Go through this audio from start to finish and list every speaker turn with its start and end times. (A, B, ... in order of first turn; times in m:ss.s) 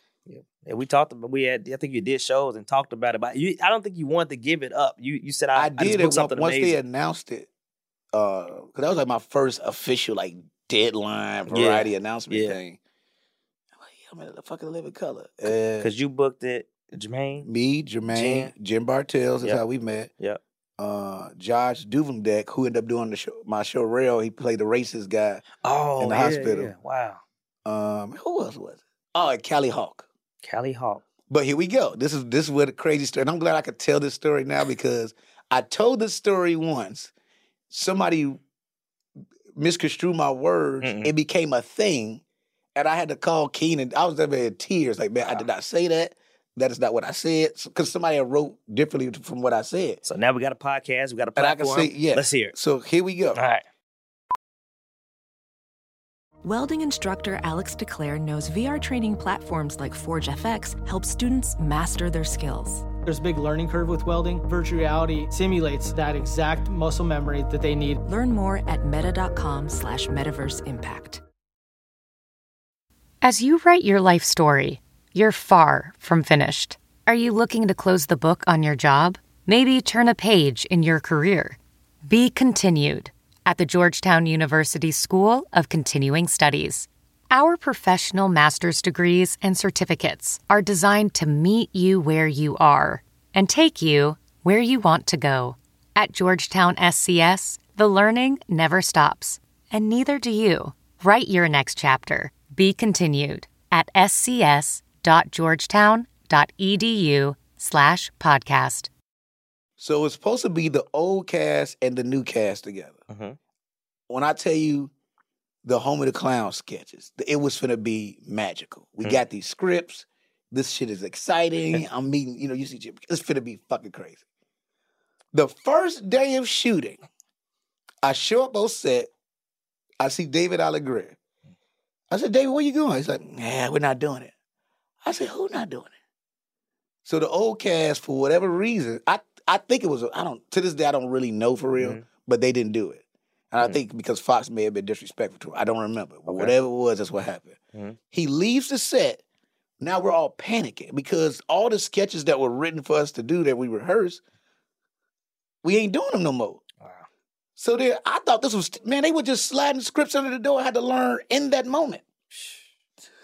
0:00.3-0:06.8 A
0:05.6-0:07.5 B
0:08.1-0:12.8 B
0:11.5-0:12.6 A
0:13.8-0:15.9 B
0:15.8-0:17.5 A
0:17.4-0:20.1 B
0:18.1-0:18.5 A
0:20.8-0:25.4 B
0:25.6-0:27.2 A
0:26.0-0:26.7 B
0:27.6-0:30.1 B
0:30.4-0:31.0 A
0:31.3-0:37.1 B
0:37.7-0:38.4 B
0:39.6-0:42.2 B
0:40.8-0:41.1 A
0:42.8-0:50.0 B
0:45.2-0:45.5 A
0:50.0-0:52.6 A
0:51.4-0:53.4 B
0:53.4-0:53.6 A
0:56.4-1:02.9 C
1:03.0-1:08.0 D
1:08.0-1:11.2 C
1:13.2-1:48.9 E
1:49.8-1:53.0 B
1:53.1-1:53.4 A
1:54.1-1:54.9 B
1:55.6-2:04.2 B
2:05.3-2:07.0 B
2:08.0-2:09.1 B
2:10.0-2:11.2 B
2:12.1-2:14.3 B
2:15.0-2:15.9 B
2:17.0-2:27.6 B
2:21.8-2:22.1 A
2:26.3-2:26.6 A
2:28.1-2:29.2 B
2:29.8-2:34.2 B
2:35.6-2:36.6 B
2:36.8-2:37.1 A
2:37.6-2:42.0 B
2:42.3-2:42.6 A